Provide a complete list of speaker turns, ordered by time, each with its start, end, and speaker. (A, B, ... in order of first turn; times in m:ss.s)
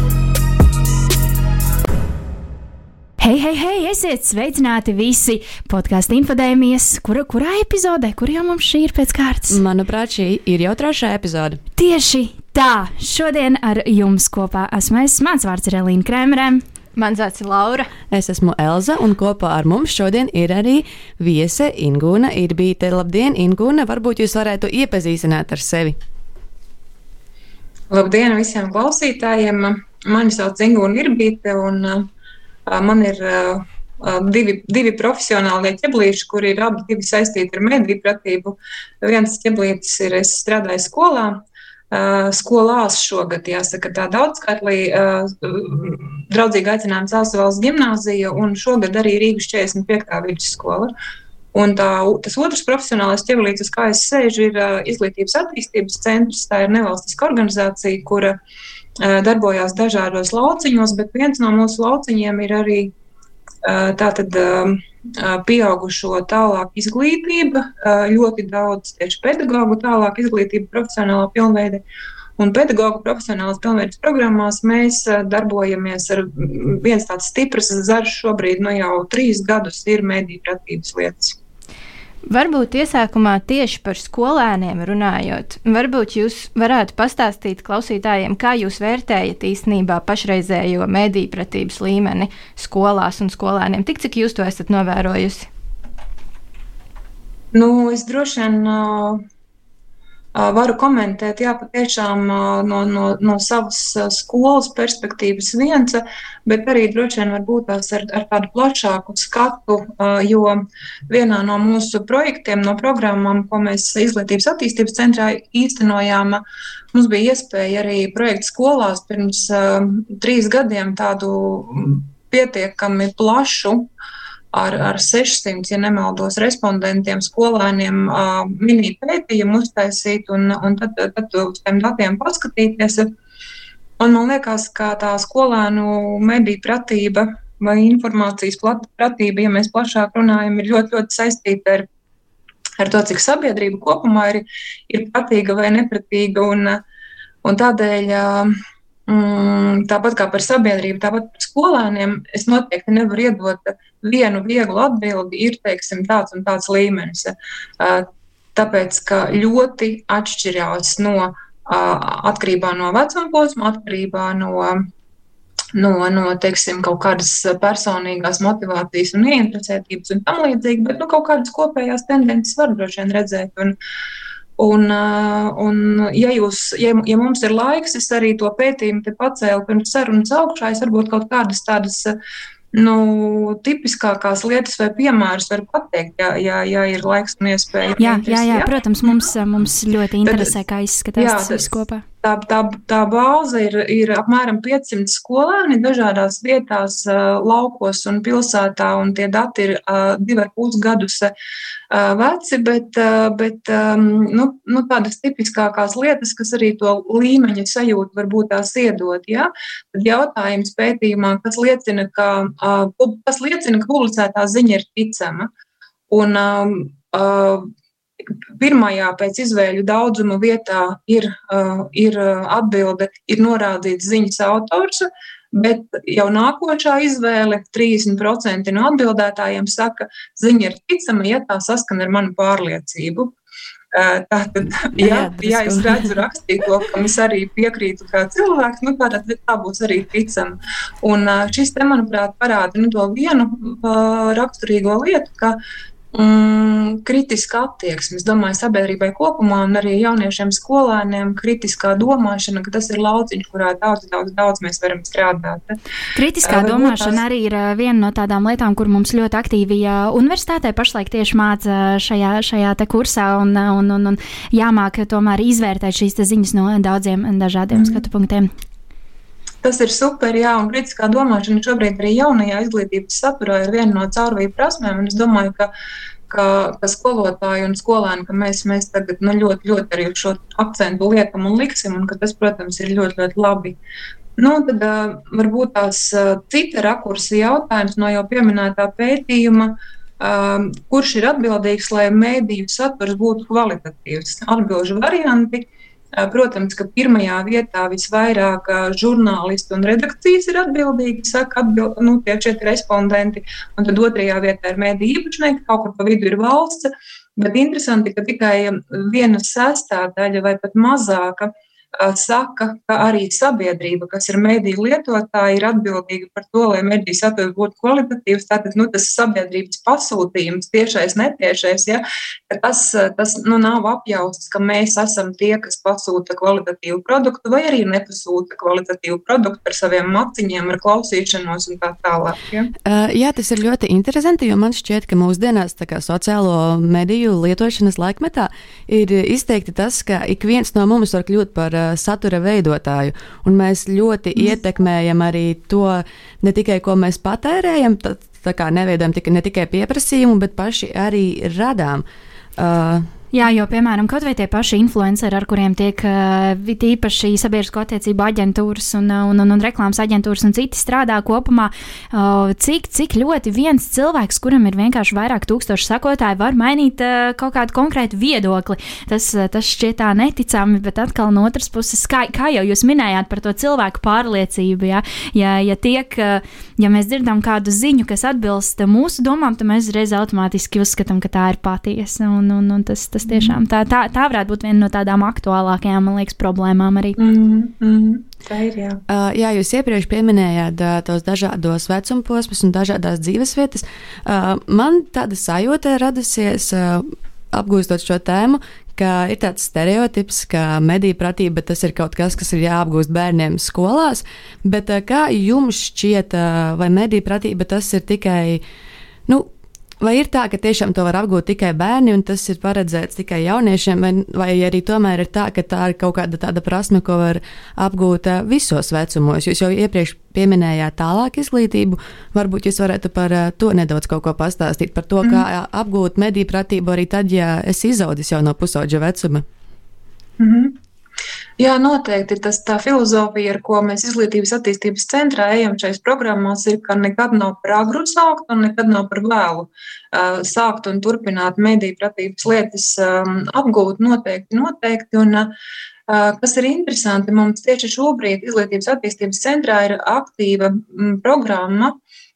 0:03.2-0:09.6 A
0:09.5-0:11.6 B
0:11.8-0:16.6 A
0:17.0-0:17.9 C
0:18.1-0:26.0 B
0:27.9-0:32.1 D
0:32.7-0:41.4 D
0:41.9-0:50.9 D
0:51.5-0:58.4 D
0:59.0-1:02.9 D
1:03.6-1:11.8 D
1:12.4-1:21.4 D
1:22.2-1:35.5 C
1:37.5-1:39.2 D
1:40.3-1:56.4 D
1:56.9-2:03.9 D
2:04.5-2:13.1 D
2:14.0-2:21.8 D
2:22.8-2:26.8 D
2:27.4-2:28.5 D
2:29.1-2:44.8 D
2:45.7-2:53.8 D
2:54.6-3:02.2 D
3:02.7-3:09.3 D
3:08.0-3:12.0 A
3:10.2-3:10.5 D
3:11.2-3:21.3 D
3:21.9-3:35.5 D
3:36.1-3:37.6 D
3:38.6-3:53.3 D
3:53.9-4:05.6 D
3:54.8-3:56.2 B
4:06.1-4:15.8 D
4:16.1-4:28.5 A
4:16.4-4:17.2 D
4:27.7-4:28.0 D
4:29.6-4:35.7 D
4:36.3-4:43.8 D
4:44.4-5:32.7 D
5:32.8-5:52.0 B
5:52.6-5:53.1 B
5:53.3-6:27.2 A
6:23.3-6:23.6 D
6:27.2-6:29.0 D
6:29.1-6:48.6 B
6:50.0-7:09.4 B
7:10.4-7:10.7 D
7:11.6-7:25.5 D
7:26.1-7:31.9 D